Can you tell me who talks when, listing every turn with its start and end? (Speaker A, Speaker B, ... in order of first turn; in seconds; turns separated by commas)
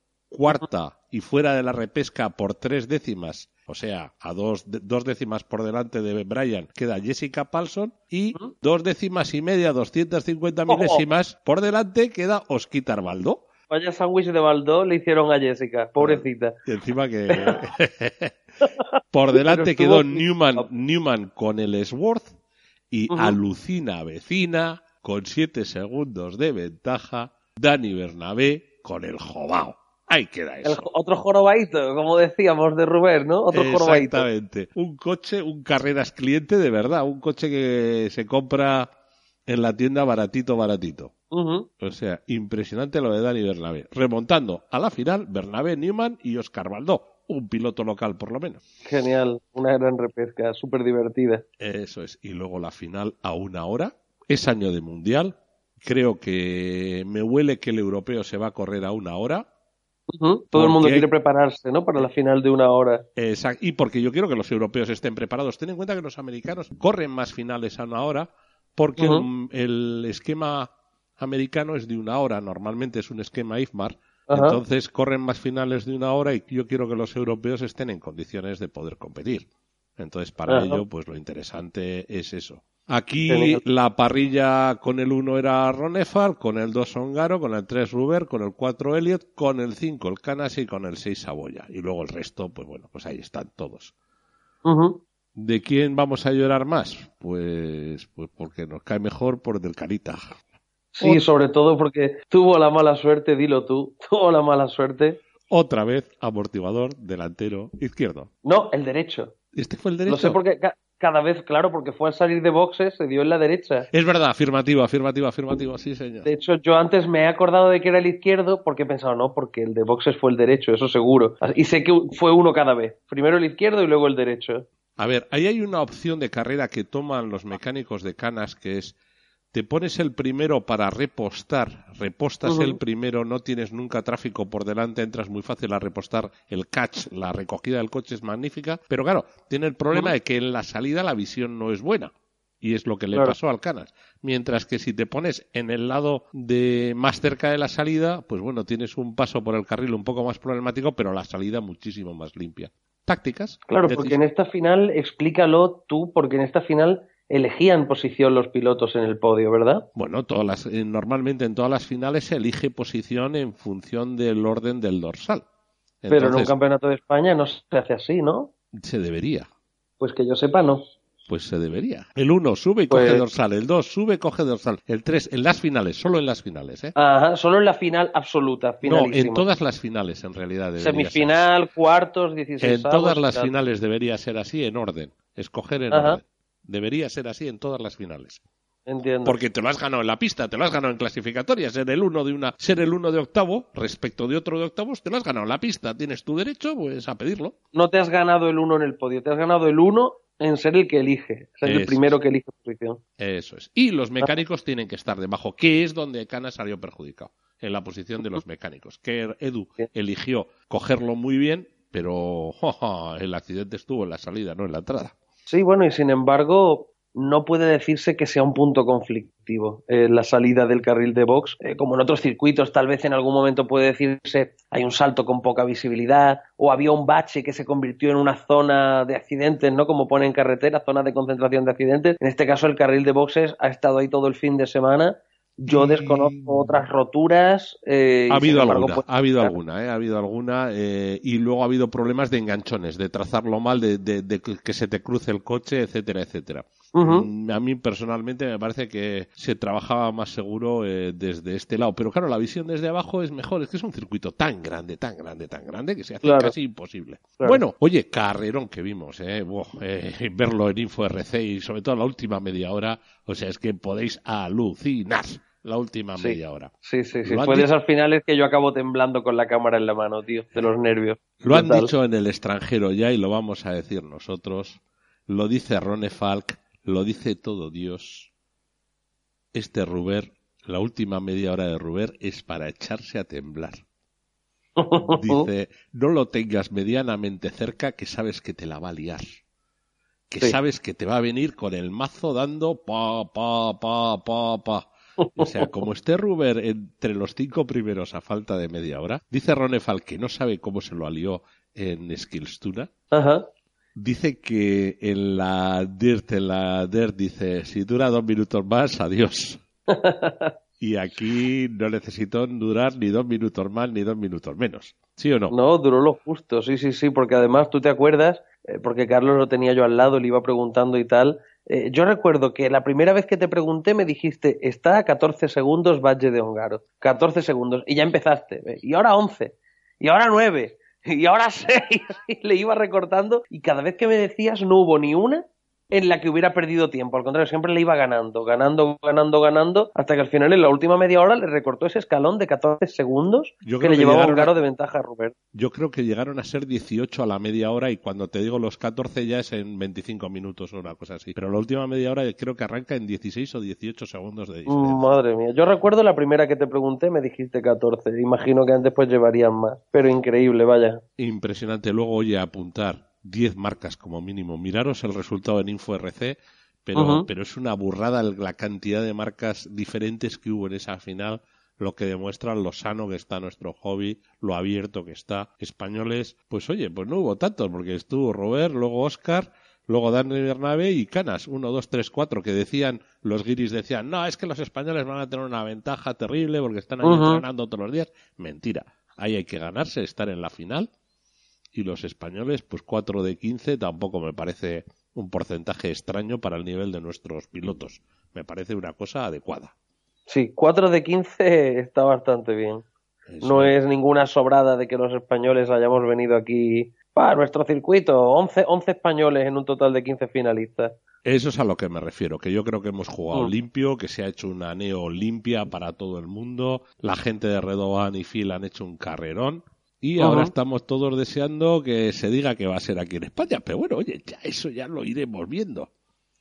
Speaker A: 0.3-13.4, Speaker B: 10.7-11.0, Speaker B: 13.7-16.5, Speaker A: 16.0-18.3, Speaker B: 17.3-17.6, Speaker B: 18.6-20.7, Speaker A: 19.1-22.3, Speaker A: 22.9-30.9, Speaker B: 23.1-23.4, Speaker B: 30.6-34.2, Speaker A: 33.5-38.9, Speaker A: 39.5-41.1, Speaker B: 41.3-41.7, Speaker A: 41.8-48.6, Speaker B: 48.9-51.4, Speaker A: 51.6-59.4, Speaker B: 60.1-63.0, Speaker A: 60.5-61.1, Speaker A: 63.1-79.5, Speaker B: 69.0-69.2, Speaker B: 74.3-74.6, Speaker A: 80.0-93.9, Speaker B: 80.5-80.8, Speaker B: 83.3-83.6, Speaker B: 94.6-95.0, Speaker A: 95.3-100.3, Speaker B: 100.9-105.2, Speaker A: 105.5-108.3, Speaker B: 108.4-109.3, Speaker A: 109.5-110.4, Speaker B: 110.1-113.9, Speaker A: 113.9-116.3, Speaker B: 116.2-124.7, Speaker A: 125.0-128.9, Speaker A: 129.5-154.2, Speaker B: 132.4-132.8, Speaker B: 153.7-159.8, Speaker A: 159.9-165.4, Speaker A: 166.0-166.5, Speaker B: 166.1-168.5, Speaker A: 168.7-169.5, Speaker B: 170.0-170.9, Speaker A: 171.3-176.9, Speaker B: 172.9-173.2, Speaker B: 176.9-179.4, Speaker A: 178.8-181.5, Speaker B: 180.8-183.5, Speaker A: 182.6-188.4, Speaker B: 185.9-186.2, Speaker B: 188.9-189.4, Speaker A: 189.2-197.5, Speaker B: 197.7-203.0, Speaker A: 201.6-202.1, Speaker A: 203.2-215.1, Speaker B: 215.5-239.6, Speaker A: 235.7-236.8, Speaker A: 238.3-266.7, Speaker B: 246.9-247.3, Speaker B: 256.2-256.5, Speaker B: 266.2-271.9, Speaker A: 267.2-267.7, Speaker A: 271.4-278.3, Speaker A: 279.5-283.8, Speaker B: 284.8-285.5, Speaker A: 285.0-289.4, Speaker A: 290.3-294.9, Speaker B: 295.2-295.7, Speaker A: 295.4-302.9, Speaker B: 303.1-303.5, Speaker A: 303.9-309.6, Speaker B: 309.9-310.5, Speaker A: 310.8-315.5, Speaker B: 315.5-345.3, Speaker A: 343.6-344.6, Speaker A: 345.5-355.0, Speaker B: 354.7-361.0, Speaker A: 361.2-390.9, Speaker B: 366.9-367.3, Speaker B: 387.0-387.4, Speaker A: 391.7-399.7, Speaker B: 400.3-402.8, Speaker A: 403.3-403.7, Speaker B: 403.4-410.9, Speaker A: 411.2-425.9, Speaker B: 420.2-420.5